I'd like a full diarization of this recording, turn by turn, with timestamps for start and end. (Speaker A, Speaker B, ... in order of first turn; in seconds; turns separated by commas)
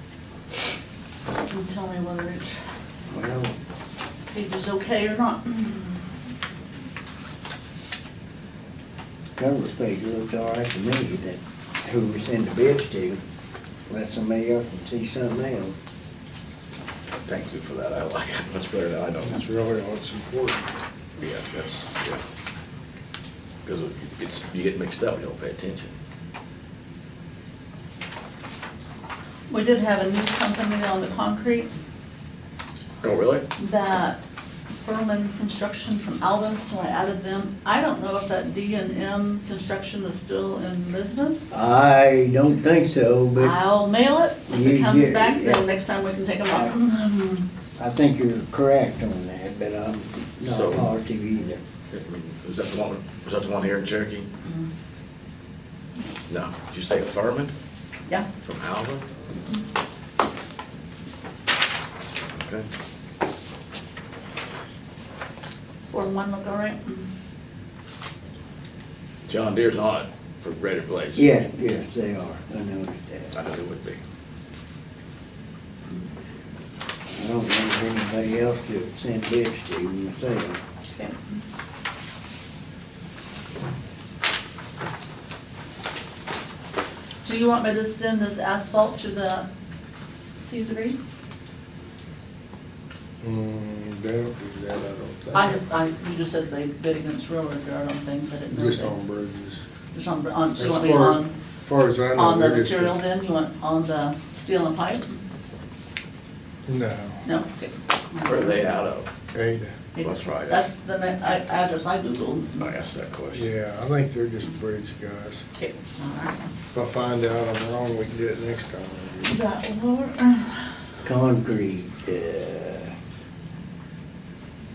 Speaker A: 1.5-2.6, Speaker B: 3.1-3.5, Speaker A: 4.3-6.0, Speaker B: 9.3-13.2, Speaker B: 13.9-15.8, Speaker C: 17.3-19.4, Speaker D: 19.2-20.7, Speaker C: 21.2-22.2, Speaker C: 23.6-25.9, Speaker A: 29.5-31.7, Speaker C: 33.0-33.5, Speaker A: 33.6-34.2, Speaker A: 34.8-41.6, Speaker B: 41.5-43.5, Speaker A: 43.4-47.5, Speaker B: 44.5-45.6, Speaker B: 47.8-51.6, Speaker C: 50.4-50.9, Speaker C: 51.9-54.3, Speaker C: 56.3-57.5, Speaker C: 58.4-59.0, Speaker C: 62.4-62.7, Speaker A: 65.9-67.1, Speaker C: 69.3-71.3, Speaker B: 71.2-73.3, Speaker C: 73.3-74.0, Speaker B: 77.2-80.6, Speaker A: 80.9-81.4, Speaker A: 87.2-89.5, Speaker A: 90.4-91.0, Speaker D: 93.2-95.6, Speaker A: 95.3-99.0, Speaker D: 98.5-99.6, Speaker A: 99.9-101.3, Speaker D: 100.6-103.0, Speaker A: 102.2-105.2, Speaker D: 106.7-107.2, Speaker A: 107.2-108.7, Speaker C: 108.2-109.1, Speaker D: 109.3-109.7, Speaker A: 110.0-112.7, Speaker C: 110.0-110.6, Speaker C: 112.6-113.5, Speaker D: 113.3-115.4, Speaker A: 115.6-116.5, Speaker D: 116.7-119.3, Speaker A: 119.2-120.7, Speaker B: 121.0-122.9